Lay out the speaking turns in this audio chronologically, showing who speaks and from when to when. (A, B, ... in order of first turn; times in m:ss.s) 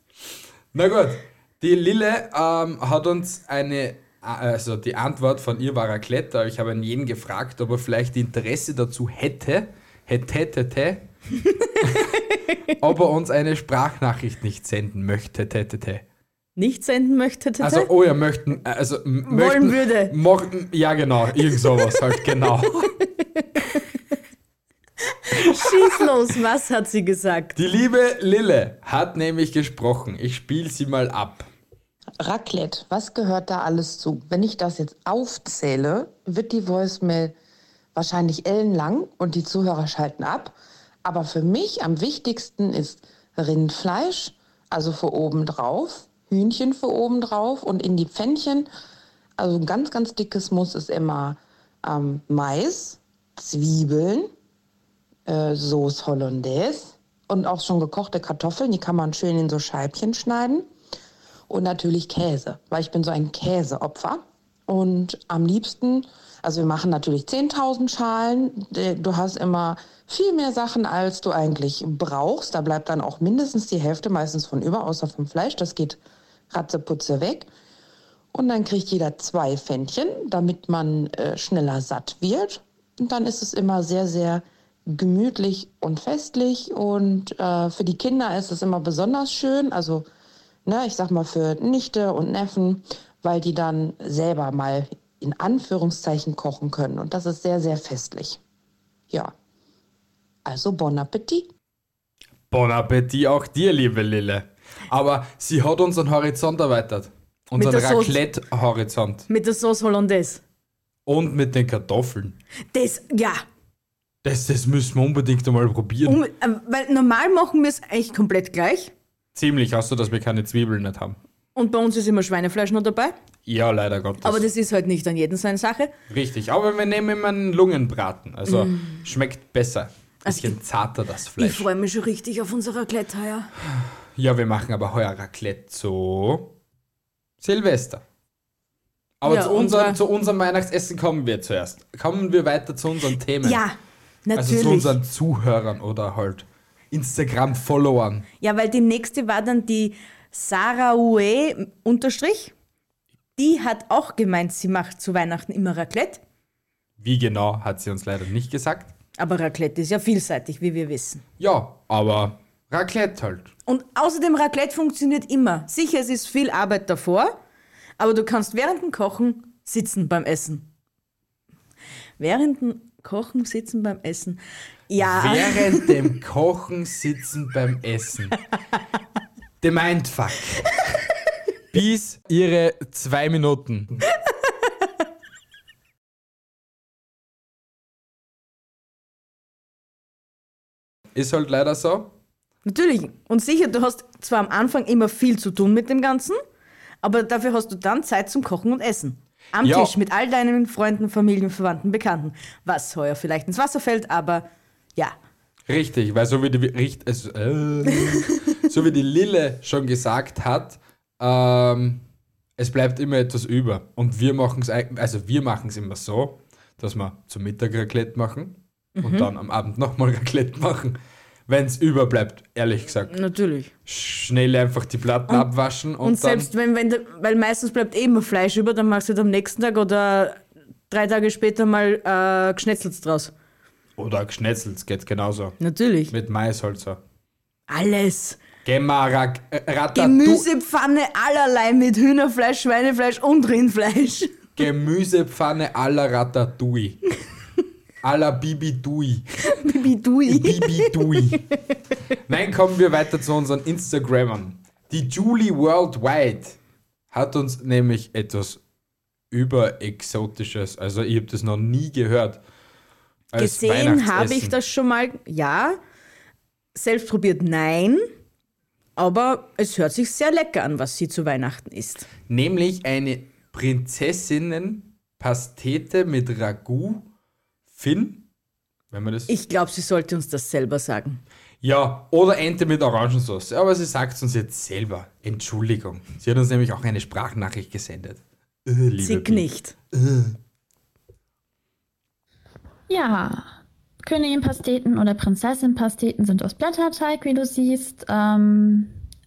0:00.7-0:11.0 A
0:11.4-0:12.6 B
0:12.8-0:16.0 A
0:16.6-0:17.9 B
0:17.6-0:22.9 A
0:19.3-0:20.1 B
0:25.1-0:27.6 B
0:25.3-0:26.0 A
0:27.6-0:31.5 A
0:32.2-0:37.3 C
0:37.9-0:48.7 C
0:49.4-0:54.3 C
0:55.3-1:00.6 C
1:01.5-1:16.0 C
1:16.5-1:17.5 C
1:18.3-1:30.0 C
1:30.6-1:38.4 C
1:40.4-1:41.5 C
1:42.5-1:49.3 A
1:47.6-1:48.2 B
1:49.3-1:50.4 B
1:51.0-1:52.4 A
1:52.7-1:53.4 B
1:54.2-1:56.2 A
1:56.0-1:58.9 B
1:59.3-2:01.2 A
2:01.5-2:03.1 B
2:03.4-2:04.4 A
2:04.2-2:05.9 B
2:06.1-2:11.7 A
2:08.5-2:09.0 B
2:10.2-2:10.6 B
2:11.4-2:13.5 B
2:13.7-2:16.5 A
2:17.4-2:18.0 A
2:19.2-2:23.6 A
2:19.2-2:20.0 B
2:23.4-2:24.9 B
2:24.3-2:28.3 A
2:28.4-2:32.5 B
2:33.4-2:36.2 B
2:37.0-2:38.9 A
2:39.2-2:41.2 B
2:41.4-2:43.5 A
2:43.7-2:47.4 B
2:48.0-2:50.7 B
2:52.2-2:56.0 B
2:55.0-2:58.4 A
2:59.6-3:00.7 A
3:01.7-3:04.0 A
3:11.1-3:12.1 A
3:12.6-3:16.4 B
3:17.0-3:25.2 B
3:19.6-3:19.9 A
3:25.7-3:32.0 A
3:32.6-3:43.1 A
3:39.0-3:39.3 B
3:43.1-3:43.7 B
3:43.8-3:46.5 A
3:46.0-3:53.3 B
3:54.0-3:55.6 A
3:55.6-3:56.1 B
3:56.1-3:57.0 A
3:57.7-3:58.4 B
3:58.6-4:00.5 A
3:59.9-4:04.3 B
4:04.6-4:07.0 A
4:08.0-4:09.2 A
4:09.5-4:11.5 B
4:10.3-4:11.4 A
4:12.3-4:16.6 A
4:17.1-4:18.6 A
4:19.3-4:22.4 A
4:23.3-4:24.6 A
4:23.4-4:25.8 B
4:26.7-4:28.1 B
4:29.0-4:32.1 B
4:32.3-4:37.1 A
4:37.7-4:38.2 A
4:38.9-4:39.3 A
4:39.3-4:41.2 B
4:41.6-4:50.3 A
4:49.0-4:49.7 B
4:52.9-4:53.5 D
4:54.0-4:58.9 D